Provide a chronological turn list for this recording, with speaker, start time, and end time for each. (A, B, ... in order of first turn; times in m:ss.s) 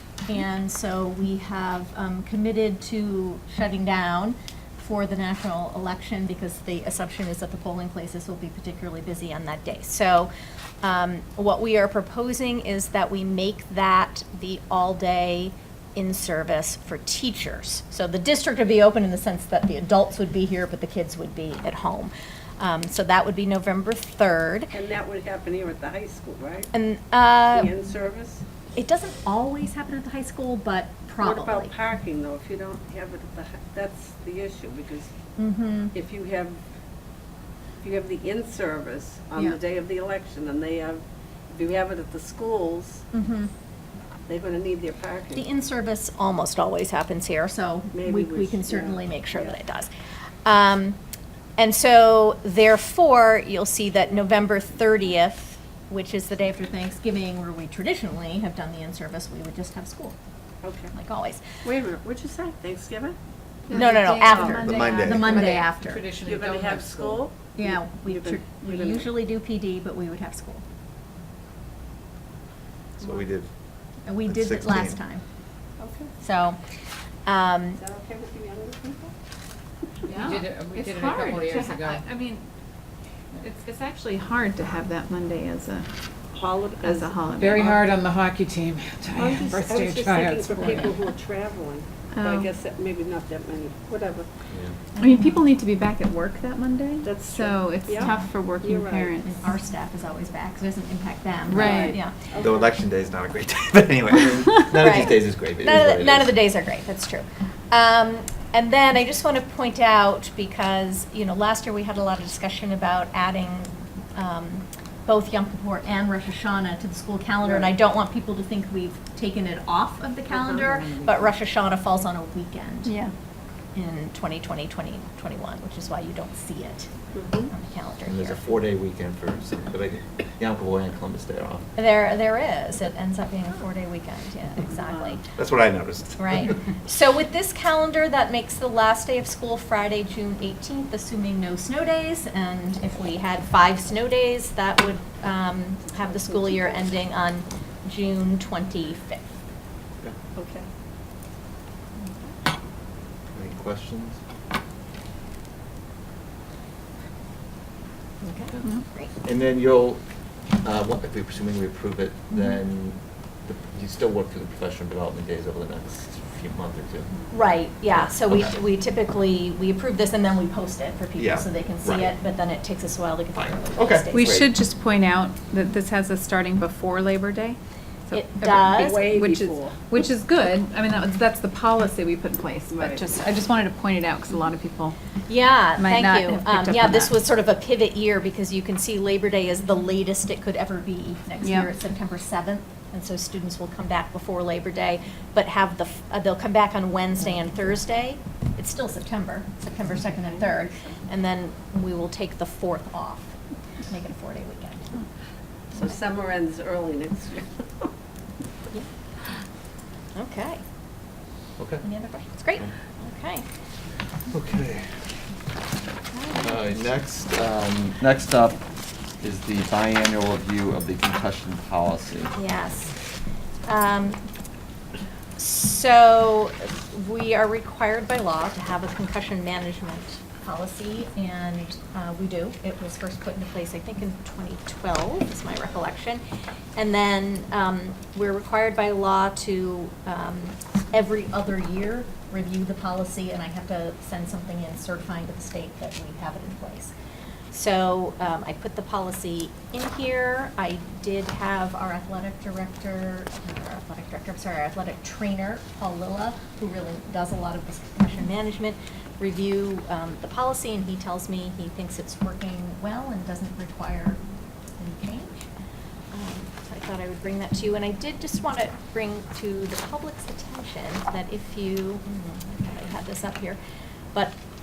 0:00.3-0:10.3 A
0:10.8-0:24.7 A
0:24.7-0:26.7 B
0:26.7-0:27.7 A
0:27.5-0:28.4 B
0:28.8-0:31.7 A
0:31.2-0:35.1 B
0:35.4-0:35.9 A
0:35.9-0:36.6 B
0:37.8-0:43.0 B
0:43.1-0:43.5 A
0:44.3-0:45.4 B
0:45.3-0:49.9 A
0:47.9-0:49.6 B
0:50.4-0:51.0 A
0:51.6-1:00.2 A
1:00.6-1:00.9 B
1:00.9-1:01.6 A
1:01.6-1:03.2 B
1:03.7-1:05.8 C
1:03.7-1:04.8 B
1:03.7-1:06.0 A
1:04.6-1:05.5 D
1:05.2-1:07.2 E
1:06.2-1:09.1 B
1:07.6-1:10.6 A
1:13.0-1:13.5 D
1:14.1-1:15.2 A
1:14.3-1:15.0 D
1:15.8-1:16.1 B
1:16.2-1:16.6 A
1:17.3-1:17.8 A
1:17.8-1:19.1 B
1:20.1-1:22.5 C
1:20.1-1:22.0 E
1:23.4-1:25.9 C
1:26.3-1:27.8 B
1:26.8-1:27.8 C
1:27.4-1:31.0 E
1:29.1-1:34.3 B
1:32.1-1:32.5 C
1:34.5-1:34.8 D
1:35.0-1:35.4 A
1:35.0-1:39.4 C
1:37.0-1:39.2 B
1:38.0-1:38.3 A
1:39.2-1:42.2 A
1:41.5-1:42.0 C
1:41.6-1:42.7 B
1:42.4-1:46.4 D
1:44.7-2:02.9 A
1:57.4-1:57.7 B
2:00.3-2:00.9 B
2:02.8-2:03.1 C
2:03.8-2:06.9 A
2:07.1-2:07.5 B
2:07.5-2:08.5 A
2:08.0-2:11.7 D
2:11.8-2:15.2 A
2:14.7-2:15.2 B
2:15.4-2:16.5 D
2:16.2-2:29.3 A
2:26.0-2:26.9 B
2:30.4-2:30.7 B
2:33.4-2:34.2 D
2:38.2-2:39.1 A
2:39.2-2:40.0 D
2:40.6-2:47.1 D
2:47.3-2:54.4 A
2:51.2-2:52.1 D
2:53.4-2:54.5 D
2:54.1-3:05.0 C
2:58.1-2:59.1 A
2:58.8-2:59.8 B
3:05.3-3:23.3 A
3:05.8-3:07.1 C
3:11.4-3:11.7 C
3:20.2-3:21.0 B
3:23.9-3:25.0 A
3:25.7-3:27.9 B
3:30.2-3:30.6 A
3:31.6-3:31.9 D
3:31.8-3:33.5 A
3:34.3-3:34.9 D
3:36.1-3:36.7 A
3:36.4-3:38.6 D
3:39.2-3:42.4 D
3:42.4-3:43.0 A
3:43.7-3:44.2 A
3:45.4-3:56.2 A
3:56.8-4:06.9 A
4:07.5-4:24.2 A
4:24.8-4:25.5 A
4:26.1-4:33.6 A